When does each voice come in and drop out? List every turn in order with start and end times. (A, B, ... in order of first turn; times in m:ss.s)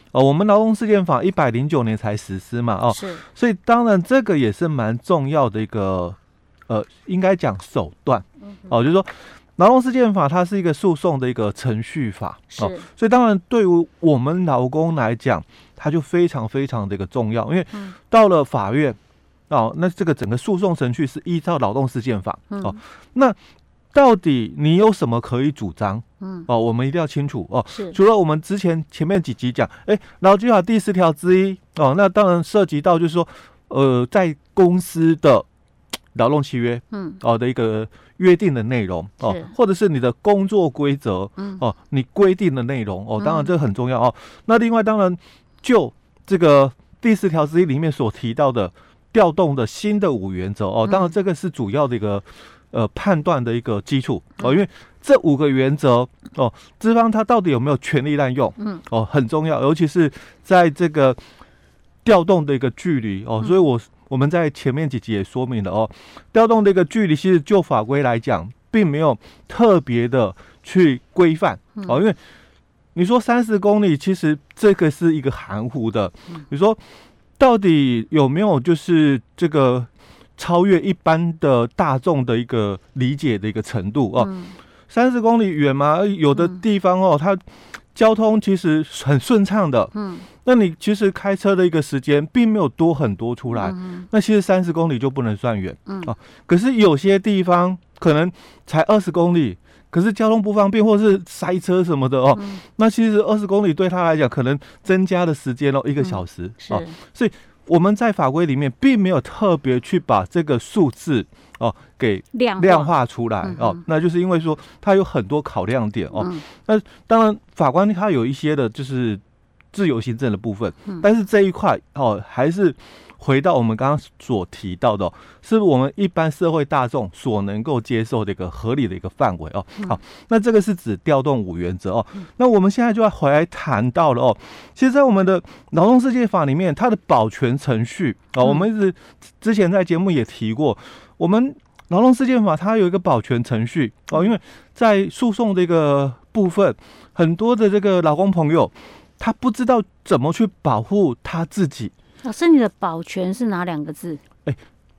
0:00.1-0:06.2 A
0:02.9-0:03.2 B
0:06.7-0:19.0 A
0:12.5-0:12.9 B
0:19.5-0:23.4 A
0:22.5-0:22.8 B
0:23.9-0:35.5 A
0:26.2-0:26.5 B
0:27.7-0:28.0 B
0:36.2-1:01.2 A
0:36.9-0:37.2 B
0:39.2-0:39.5 B
0:43.2-0:43.5 B
0:50.9-0:51.1 B
1:02.0-1:12.2 A
1:13.0-1:16.8 A
1:17.4-1:24.3 A
1:24.2-1:24.6 B
1:24.9-1:27.4 A
1:27.9-1:29.9 A
1:29.9-1:30.3 B
1:30.4-1:59.2 A
1:33.5-1:34.1 B
1:42.4-1:42.6 B
1:46.0-1:47.0 B
1:52.3-1:52.9 B
1:53.4-1:53.8 B
1:56.2-1:56.4 B
1:59.7-2:31.9 A
2:32.2-2:34.2 B